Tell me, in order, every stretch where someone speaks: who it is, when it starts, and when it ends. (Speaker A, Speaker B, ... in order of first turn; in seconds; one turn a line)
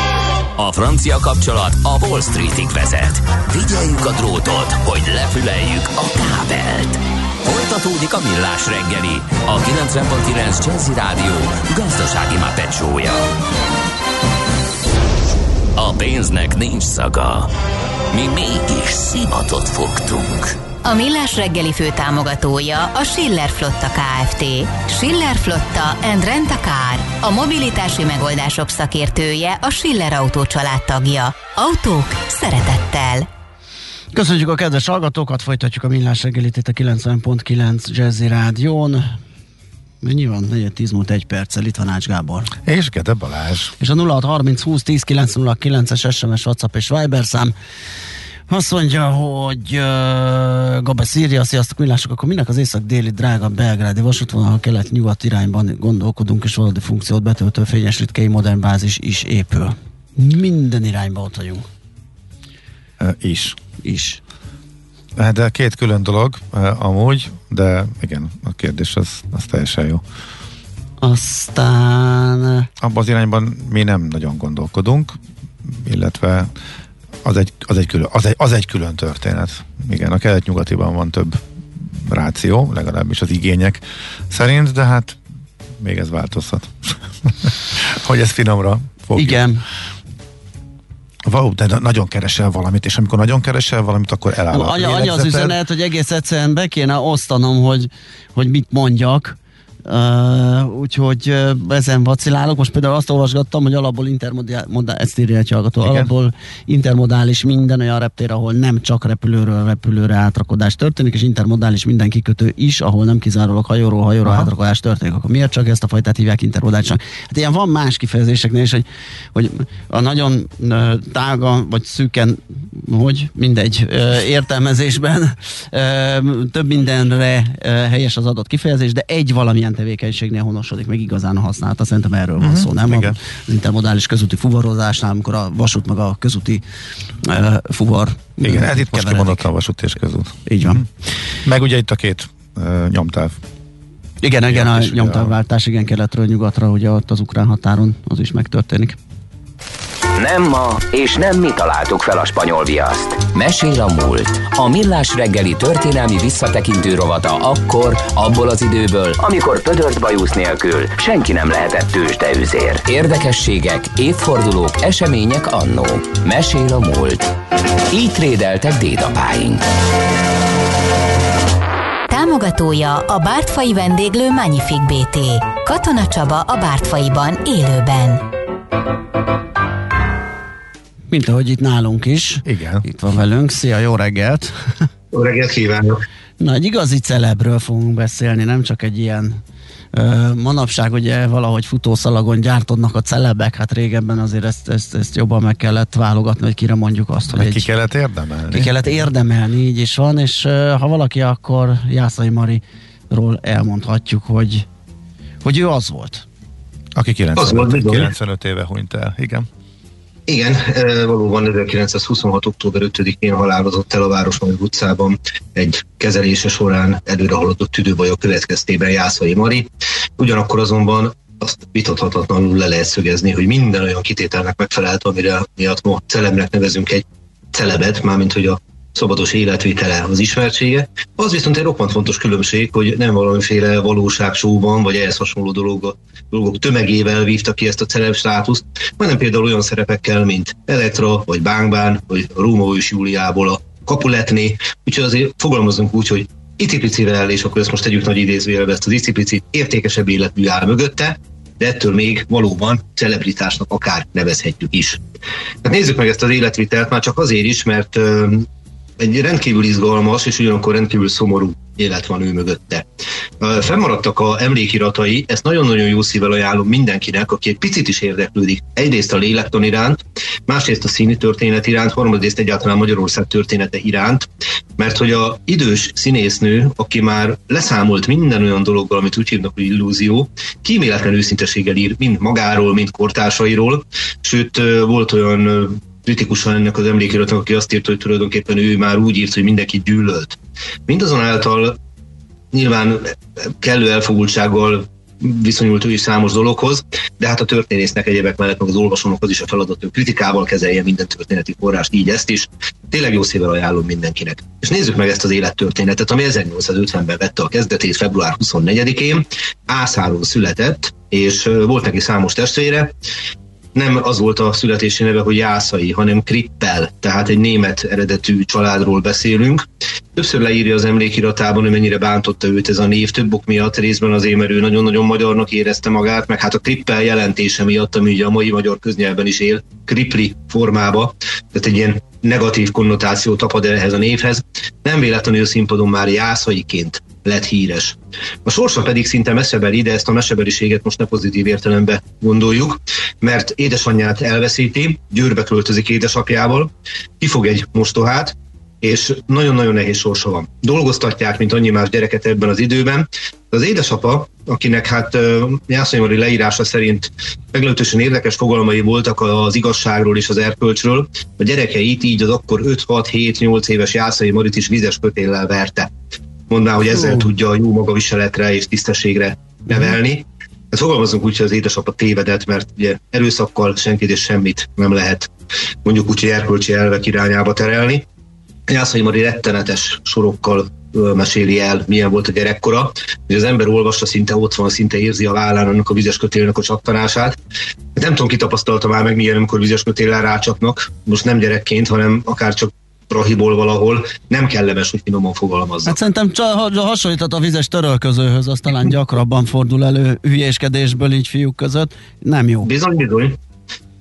Speaker A: 0.6-13.3
Speaker A: 15.8-17.5
Speaker A: 18.1-20.6
Speaker B: 20.8-33.3
Speaker C: 34.1-39.1
Speaker C: 40.0-42.5
Speaker D: 42.6-43.7
Speaker C: 43.8-47.5
Speaker C: 48.5-61.7
Speaker D: 63.0-63.6
Speaker C: 63.8-64.2
Speaker D: 65.2-70.0
Speaker C: 71.0-72.7
Speaker D: 72.8-76.5
Speaker D: 77.2-85.2
Speaker D: 85.8-89.4
Speaker C: 89.2-89.6
Speaker D: 91.2-95.6
Speaker C: 94.5-136.6
Speaker D: 105.8-106.1
Speaker D: 114.2-114.5
Speaker D: 132.4-133.2
Speaker C: 137.2-139.5
Speaker D: 138.4-140.9
Speaker C: 140.5-140.8
Speaker D: 141.4-143.4
Speaker C: 144.2-149.0
Speaker D: 144.5-145.3
Speaker A: 150.2-167.3
Speaker A: 167.9-169.7
Speaker B: 172.1-178.2
Speaker C: 181.1-184.8
Speaker D: 182.4-182.8
Speaker E: 185.1-186.0
Speaker C: 186.4-189.4
Speaker C: 189.9-197.7
Speaker D: 197.3-198.9
Speaker C: 198.5-204.7
Speaker C: 205.4-206.2
Speaker D: 206.9-209.5
Speaker E: 207.3-208.1
Speaker E: 210.3-255.0
Speaker E: 255.6-258.4
Speaker E: 259.0-262.9
Speaker E: 263.4-291.8
Speaker E: 292.5-312.9
Speaker E: 313.7-365.9
Speaker E: 366.5-375.3
Speaker E: 375.8-378.1
Speaker E: 378.7-387.4
Speaker E: 387.9-396.0
Speaker C: 395.8-402.7
Speaker E: 402.6-403.4